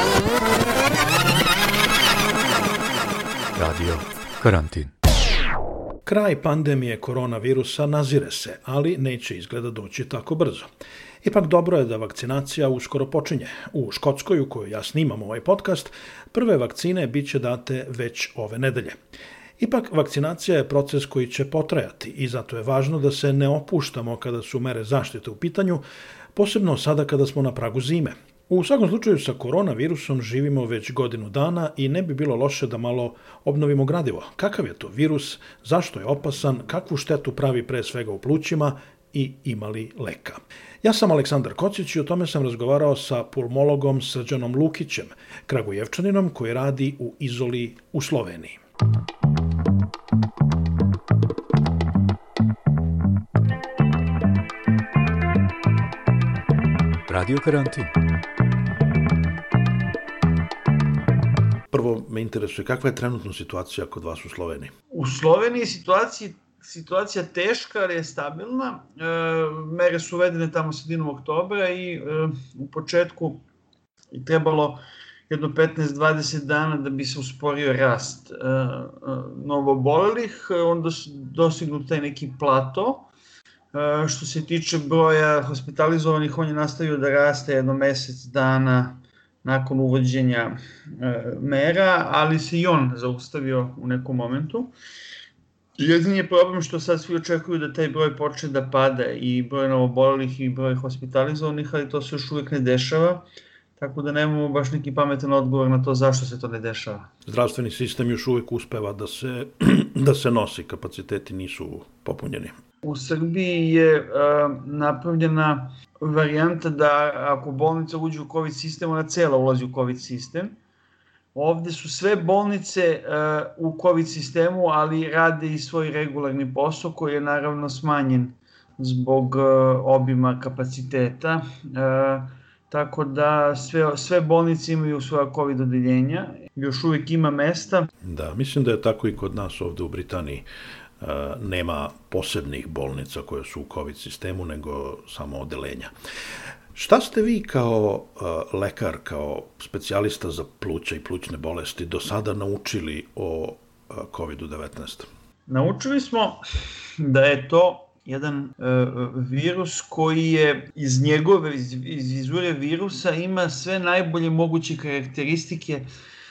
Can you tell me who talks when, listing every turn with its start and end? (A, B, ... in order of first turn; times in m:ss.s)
0:03.5-0:04.9 A
0:06.0-0:10.7 B
0:11.2-0:19.0 B
0:19.6-0:25.8 B
0:26.3-0:48.6 B
0:57.1-0:57.9 A
1:01.7-1:04.7 B
1:04.9-1:13.4 C
1:14.1-1:23.1 C
1:23.7-1:34.7 C
1:35.8-1:43.2 C
1:43.8-1:47.1 C
1:47.2-1:52.6 B
1:52.8-2:00.5 C
2:01.3-2:17.9 C
2:18.0-2:20.4 B
2:21.0-2:25.9 B
2:26.7-2:35.1 B
2:35.5-2:36.4 C
2:37.0-2:45.8 C